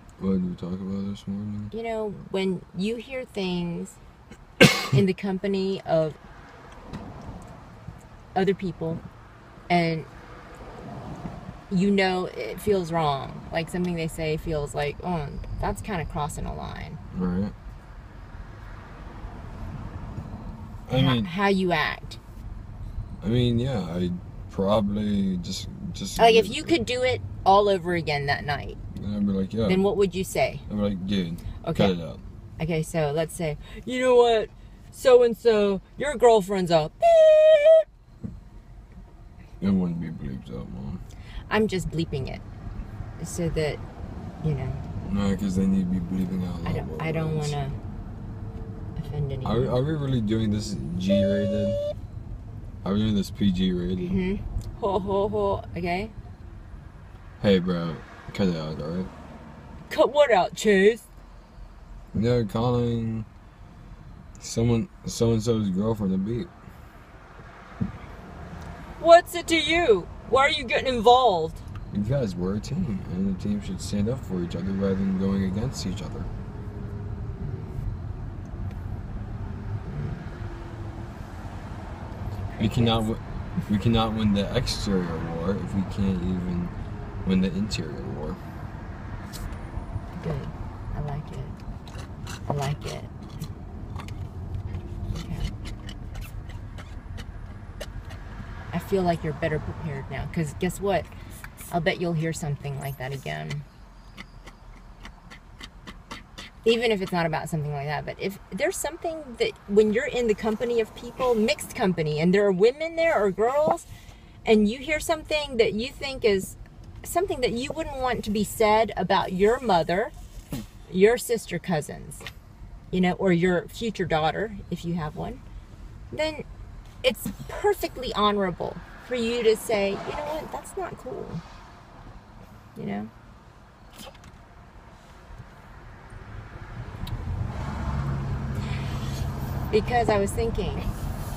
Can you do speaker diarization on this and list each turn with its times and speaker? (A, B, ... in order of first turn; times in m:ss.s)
0:00.2-0:01.7 A
0:01.7-0:04.0 B
0:04.9-0:06.2 B
0:08.3-0:09.0 B
0:09.7-0:10.1 B
0:11.7-0:17.0 B
0:17.1-0:17.5 A
0:20.9-0:21.3 A
0:20.9-0:22.2 B
0:23.2-0:26.7 A
0:26.2-0:28.8 B
0:28.9-0:29.8 A
0:29.7-0:30.6 B
0:30.7-0:32.2 A
0:31.6-0:31.9 B
0:32.6-0:37.8 B
0:39.6-0:41.0 A
0:41.5-0:42.4 B
0:43.2-0:43.8 B
0:44.4-0:44.8 B
0:45.0-0:47.6 A
0:46.6-0:47.7 B
0:49.0-0:49.8 B
0:49.4-0:51.8 A
0:52.8-0:54.2 A
0:54.0-0:56.1 B
0:57.4-0:59.1 A
0:59.9-1:01.1 B
1:02.1-1:03.3 A
1:04.4-1:06.5 A
1:09.0-1:11.6 B
1:11.9-1:16.3 A
1:19.9-1:20.3 B
1:22.5-1:23.0 B
1:22.6-1:26.7 A
1:27.2-1:28.4 A
1:30.2-1:31.5 B
1:32.5-1:33.1 B
1:35.1-1:35.5 B
1:38.7-1:41.1 B
1:41.7-1:43.6 B
1:46.6-1:53.9 B
1:54.4-2:00.1 B
2:00.9-2:02.2 B
2:02.9-2:05.4 B
2:06.1-2:06.4 B
2:07.0-2:11.4 B
2:12.8-2:13.1 B
2:19.7-2:20.9 B